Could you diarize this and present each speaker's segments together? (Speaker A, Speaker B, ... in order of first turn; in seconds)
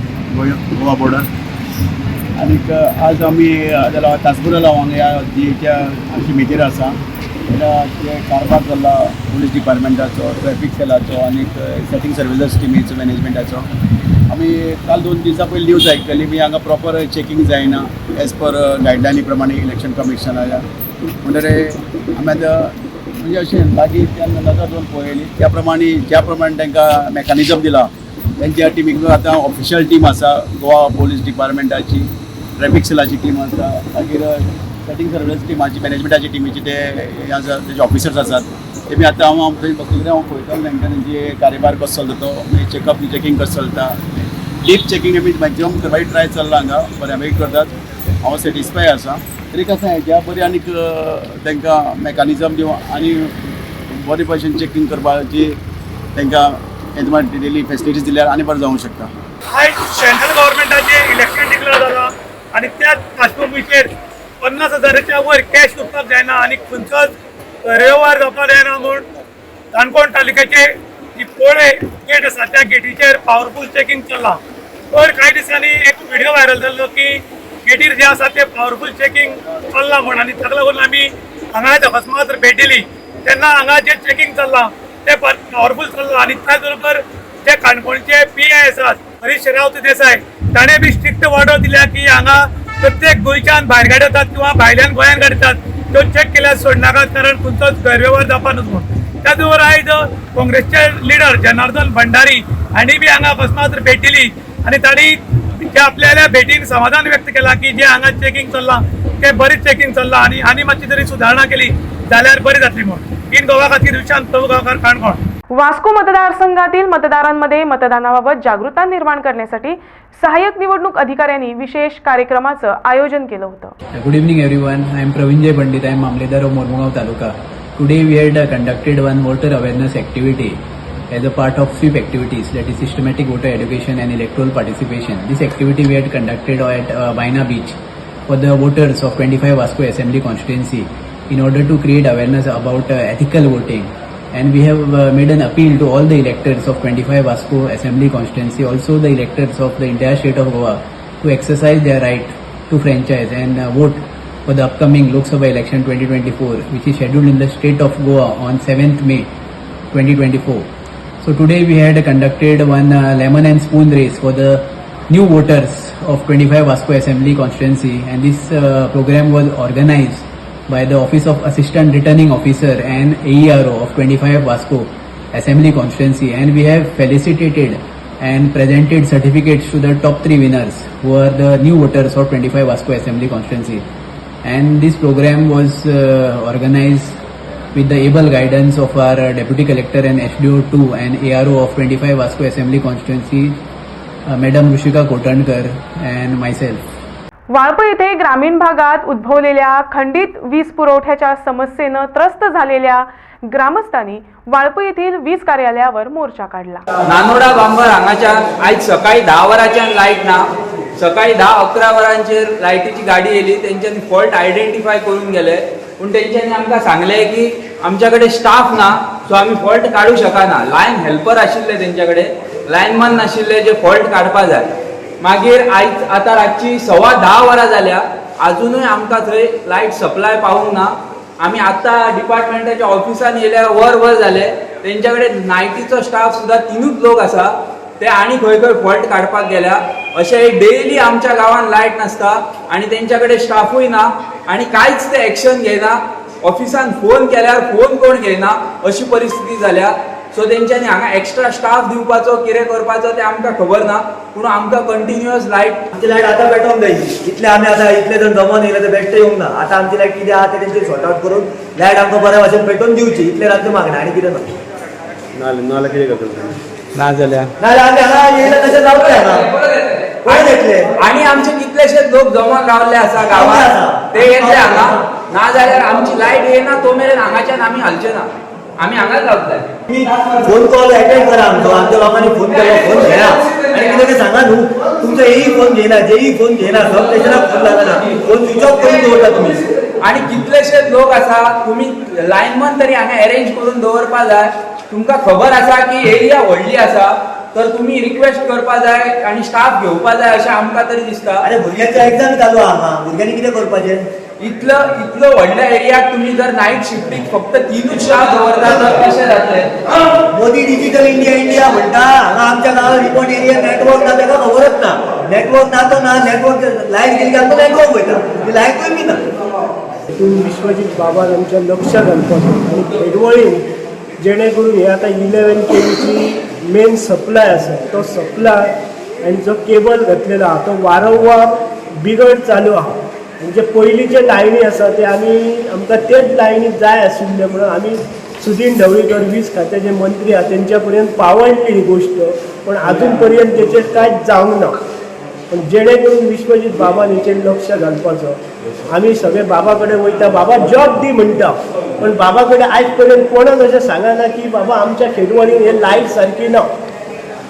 Speaker A: 0.3-1.3, 2.4-7.0, 7.5-13.7, 14.3-20.6, 21.2-44.0, 44.6-47.7, 48.2-53.3, 53.9-55.6, 56.1-59.1
Speaker B: 59.5-63.9, 64.4-67.1, 67.7-69.0, 69.7-74.4, 74.9-115.2
Speaker C: 115.5-123.7, 197.5-206.9
Speaker D: 123.9-130.6, 131.1-137.8, 138.3-159.3, 159.9-160.7, 161.2-183.9, 184.4-187.2, 187.7-193.6, 194.3-196.8
Speaker E: 207.1-230.9, 231.4-255.8, 269.2-278.3, 278.8-279.8, 290.0-301.4, 304.4-310.0
Speaker F: 255.9-264.5, 267.6-269.5, 270.2-270.9, 273.3-275.0, 279.9-289.7, 301.4-304.1, 310.3-319.2
Speaker G: 320.1-323.6, 324.2-344.8, 345.5-348.4, 348.9-356.7